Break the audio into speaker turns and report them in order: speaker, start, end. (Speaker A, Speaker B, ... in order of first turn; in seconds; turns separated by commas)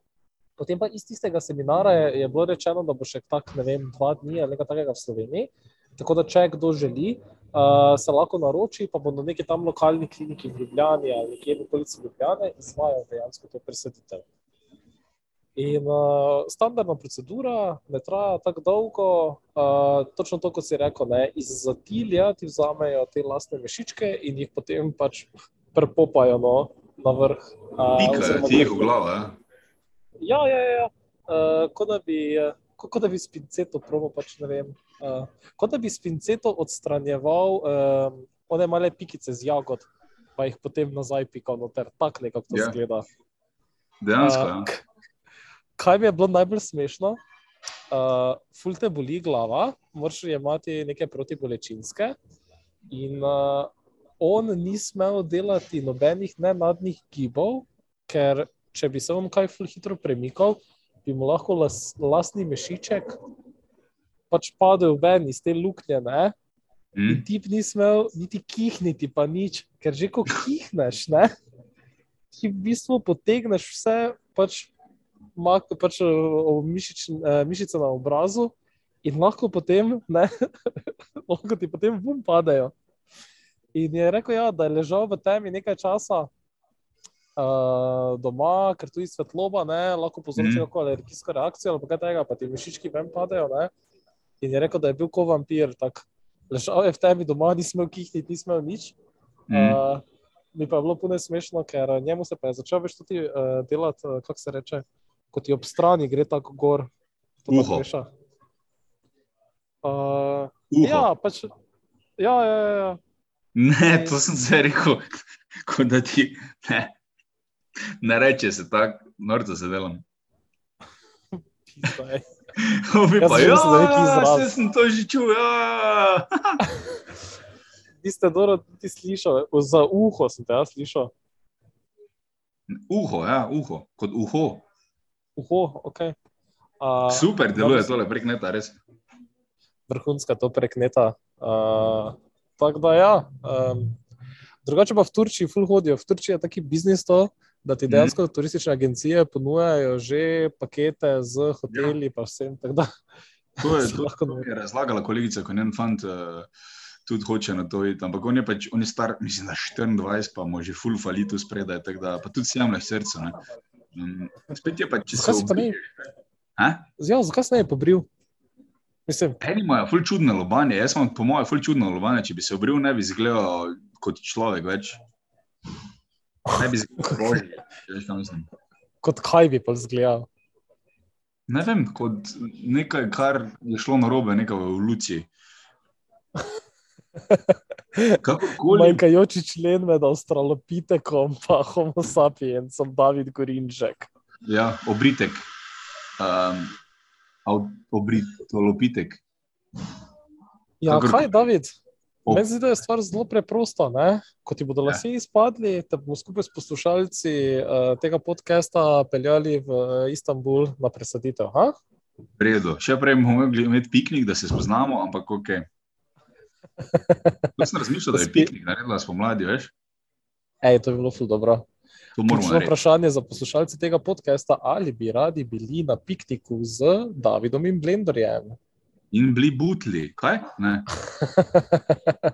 Speaker A: 0.6-14.2, Speaker A: 15.6-28.9, Speaker B: 27.9-29.4, Speaker A: 30.2-43.1, Speaker B: 42.5-42.8, Speaker B: 44.0-44.7, Speaker A: 44.2-44.8, Speaker A: 45.8-47.2, Speaker A: 47.9-52.2, Speaker A: 52.9-63.2, Speaker A: 64.3-66.3, Speaker B: 67.0-67.2, Speaker A: 67.1-71.3, Speaker A: 72.3-74.7, Speaker A: 75.4-82.8, Speaker A: 83.8-86.3, Speaker A: 87.4-93.7, Speaker B: 90.4-90.7, Speaker A: 94.4-99.0, Speaker B: 99.5-99.8, Speaker A: 99.5-100.0, Speaker A: 100.5-106.9, Speaker A: 107.4-108.1, Speaker B: 107.5-107.9, Speaker A: 109.8-111.5, Speaker B: 110.7-111.1, Speaker A: 112.2-113.0, Speaker B: 113.5-117.0, Speaker B: 118.0-120.0, Speaker A: 121.7-122.3, Speaker B: 122.6-126.6, Speaker A: 123.2-124.5, Speaker A: 128.0-131.1, Speaker B: 132.7-134.7, Speaker A: 135.4-136.2, Speaker A: 136.8-138.0, Speaker B: 137.1-138.8, Speaker A: 139.9-144.0, Speaker A: 144.6-152.9, Speaker B: 147.9-148.2, Speaker B: 151.7-151.9, Speaker A: 153.6-154.5, Speaker B: 153.6-156.5, Speaker B: 157.1-163.4, Speaker B: 163.9-165.9, Speaker A: 165.1-165.8, Speaker B: 166.6-166.9, Speaker A: 167.0-168.1, Speaker A: 169.1-169.4, Speaker B: 169.4-175.0, Speaker B: 176.5-178.5, Speaker A: 177.0-177.4, Speaker A: 179.0-180.3, Speaker B: 181.5-185.3, Speaker A: 187.3-194.1, Speaker B: 188.2-189.0, Speaker B: 194.4-195.5, Speaker B: 196.2-196.8, Speaker B: 197.5-199.2, Speaker A: 200.8-201.7, Speaker B: 200.9-201.4, Speaker A: 202.3-211.8, Speaker B: 212.4-215.7, Speaker A: 216.9-217.6, Speaker B: 217.6-219.7, Speaker A: 218.1-218.5, Speaker A: 220.6-221.7, Speaker B: 222.2-222.8, Speaker A: 222.3-228.6, Speaker B: 229.1-230.9, Speaker A: 231.2-232.2